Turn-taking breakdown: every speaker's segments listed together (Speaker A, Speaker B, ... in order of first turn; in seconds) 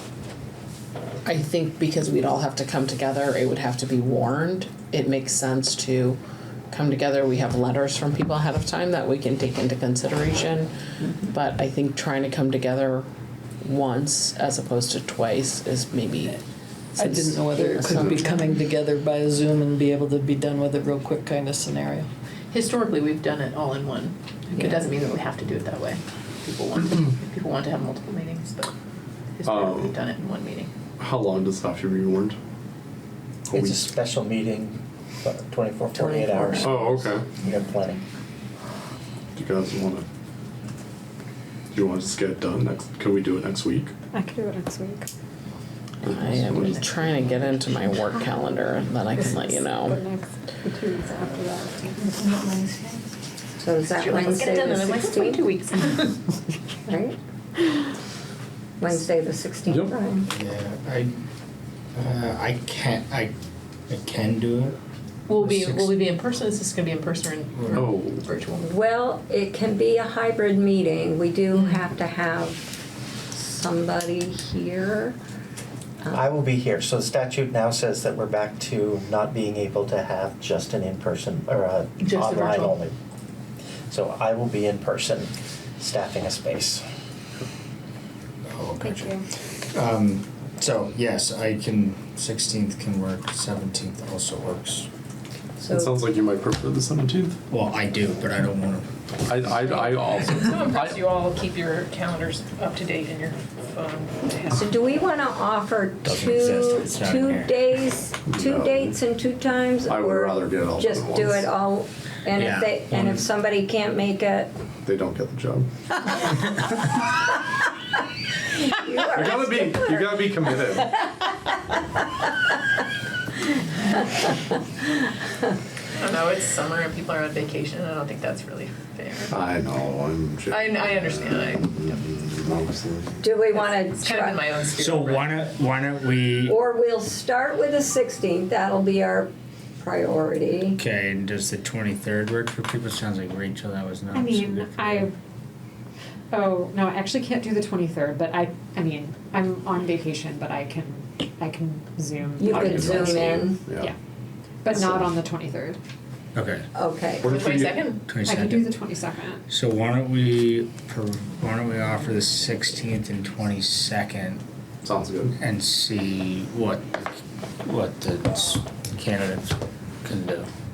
Speaker A: 1.2-6.2, 6.7-10.7, 11.2-13.1, 13.6-16.3, 17.0-18.4, 46.0-50.0
Speaker B: 17.0-22.1
Speaker C: 22.5-28.7, 29.4-30.7, 46.1-47.7, 54.0-56.2, 65.3-68.7, 71.5-71.8, 82.0-82.7, 99.6-104.5, 126.0-129.4, 130.5-132.0, 133.5-135.3, 157.2-158.0
Speaker D: 29.4-30.0, 31.0-32.4, 33.5-33.9, 36.6-37.3, 39.3-40.0, 41.7-43.9, 46.3-46.8, 59.7-59.9, 67.7-68.2, 95.7-97.4, 99.3-101.0, 108.3-109.0, 109.9-111.5, 114.8-115.7, 119.1-121.1, 129.3-133.2, 152.6-153.9, 154.7-155.0, 157.2-157.9, 164.8-165.3
Speaker E: 33.5-38.0, 76.1-82.9, 83.9-86.8
Speaker F: 35.9-37.1, 53.6-55.4, 56.9-57.2, 58.8-60.2, 68.6-72.7, 73.3-75.2, 95.6-96.0, 104.5-114.5, 118.7-120.1, 133.2-134.4, 136.4-140.8, 152.4-153.6, 156.7-157.3
Speaker G: 44.1-45.1, 47.8-53.0, 88.8-89.2, 144.1-145.1, 146.3-153.9, 154.6-155.8, 158.2-159.4
Speaker H: 60.3-61.1, 61.9-63.3, 63.9-64.8, 65.4-65.9, 88.5-89.2, 89.7-94.9, 97.5-98.8, 106.0-107.6, 112.3-113.2, 134.8-136.6, 140.8-145.1, 156.3-156.7, 158.1-158.7, 159.5-164.4, 165.3-167.0, 167.6-169.5, 170.0-170.5